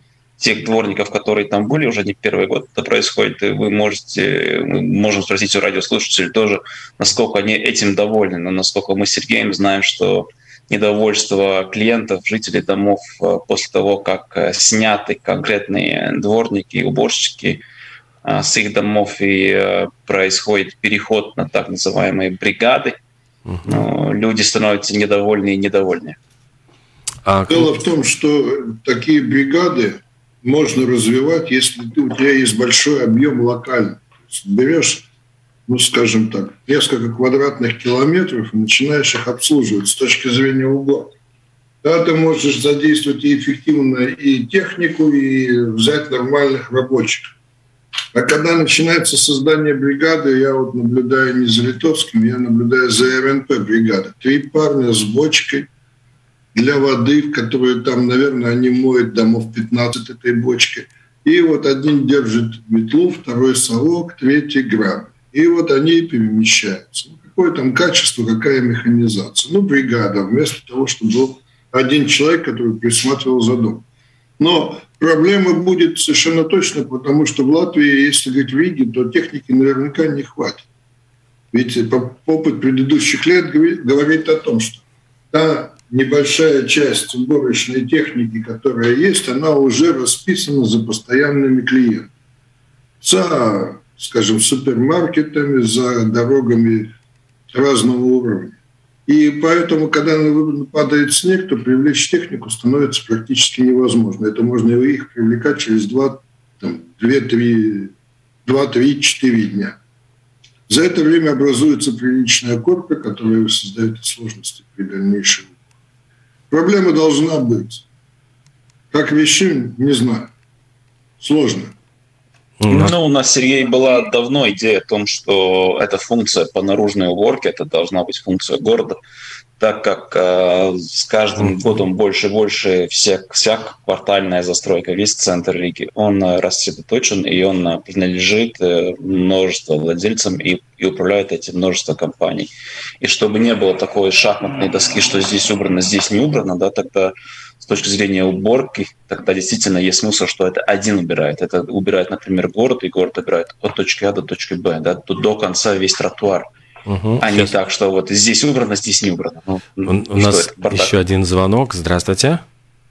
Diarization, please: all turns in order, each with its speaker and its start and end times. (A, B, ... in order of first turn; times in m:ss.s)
0:00.4-0:17.6 A
0:18.2-0:23.0 A
0:23.5-0:23.8 B
0:23.6-0:26.2 A
0:27.2-0:27.7 B
0:27.5-0:35.1 C
0:35.7-0:41.2 C
0:41.8-0:47.3 C
0:48.1-0:55.7 C
0:56.5-1:13.8 C
1:14.4-1:20.7 C
1:21.5-1:32.1 C
1:33.0-1:36.9 C
1:37.5-1:38.6 C
1:39.1-1:47.9 C
1:48.4-1:49.8 C
1:50.7-1:55.5 C
1:56.5-1:57.8 C
1:58.9-2:00.3 C
2:01.2-2:01.7 C
2:02.6-2:02.9 B
2:02.7-2:09.0 A
2:09.6-2:36.5 A
2:36.9-2:37.5 B
2:37.2-2:40.9 A
2:39.9-2:42.4 B